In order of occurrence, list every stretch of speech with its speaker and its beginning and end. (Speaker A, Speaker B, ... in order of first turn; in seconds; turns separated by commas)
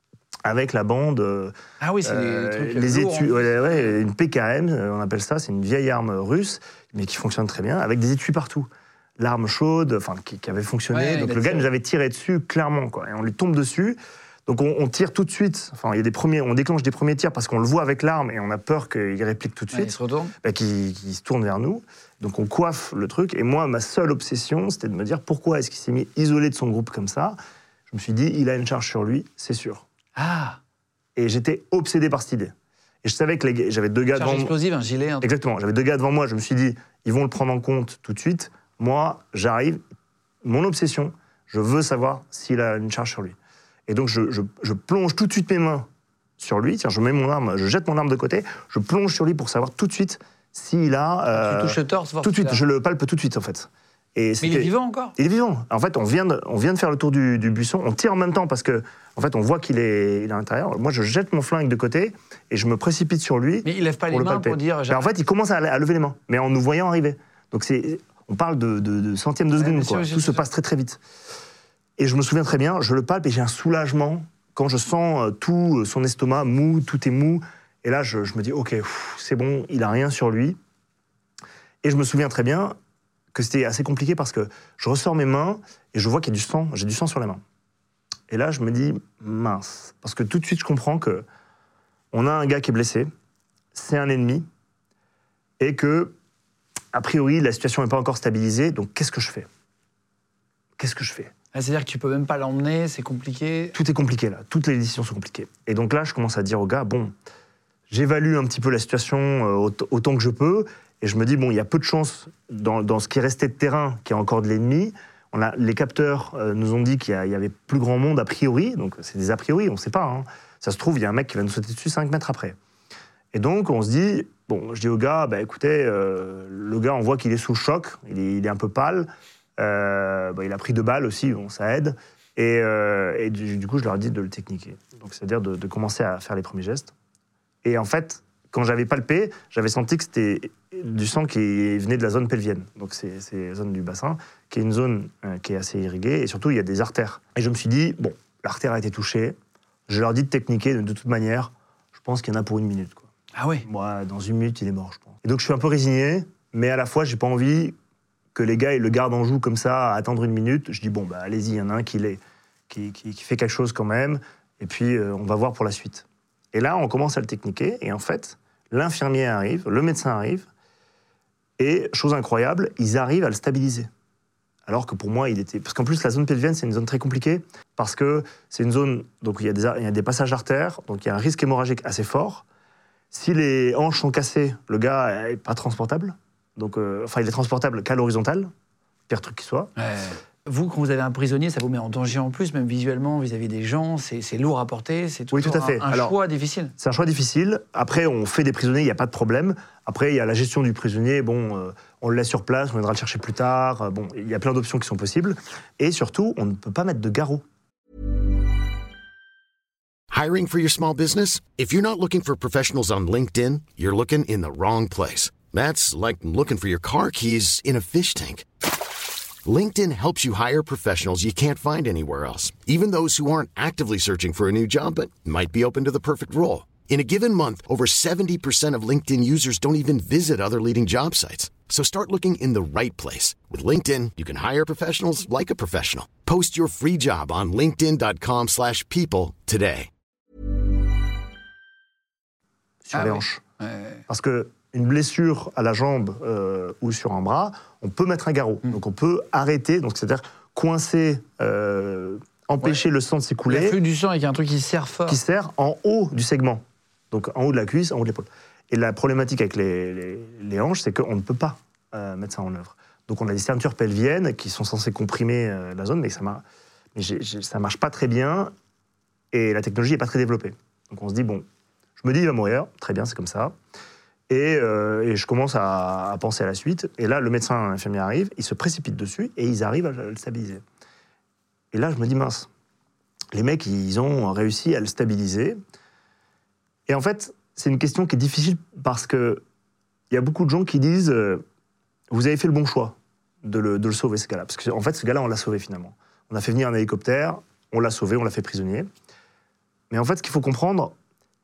Speaker A: 0.4-27.4, Speaker B: 1.8-4.0, Speaker B: 10.9-11.7, Speaker B: 19.7-20.3, Speaker A: 27.9-29.9, Speaker B: 30.1-30.6, Speaker A: 31.1-34.5, Speaker B: 34.1-35.3, Speaker A: 35.2-39.8, Speaker A: 40.4-43.4, Speaker A: 43.9-45.9, Speaker A: 46.4-71.0, Speaker B: 51.3-52.6, Speaker B: 54.4-55.1, Speaker B: 63.6-65.1, Speaker B: 69.6-70.5, Speaker A: 72.0-80.6, Speaker A: 81.8-82.8, Speaker A: 83.3-87.4, Speaker A: 88.3-91.2, Speaker A: 92.1-93.1, Speaker A: 93.7-94.5, Speaker A: 95.6-96.1, Speaker A: 96.9-99.5, Speaker A: 100.8-101.3, Speaker B: 101.5-103.8, Speaker A: 103.7-107.1, Speaker A: 107.9-122.6, Speaker A: 123.3-136.9, Speaker A: 137.6-149.3, Speaker A: 149.9-153.1, Speaker B: 153.3-153.7, Speaker A: 153.6-157.7, Speaker A: 158.3-170.5, Speaker A: 171.6-173.9, Speaker A: 174.7-182.4, Speaker A: 183.1-188.5, Speaker A: 189.1-189.7, Speaker B: 189.8-196.7, Speaker A: 195.3-196.1, Speaker A: 196.8-207.4, Speaker C: 210.1-218.5, Speaker C: 219.4-239.9, Speaker A: 242.8-243.4, Speaker B: 242.9-244.0, Speaker A: 244.1-253.8, Speaker B: 253.5-255.2, Speaker A: 255.1-268.5, Speaker A: 269.3-271.4, Speaker A: 272.0-273.5, Speaker A: 274.3-280.6, Speaker A: 281.7-282.5, Speaker A: 283.3-285.6, Speaker A: 286.9-289.4, Speaker A: 290.1-291.4, Speaker A: 292.1-298.9, Speaker A: 299.9-300.9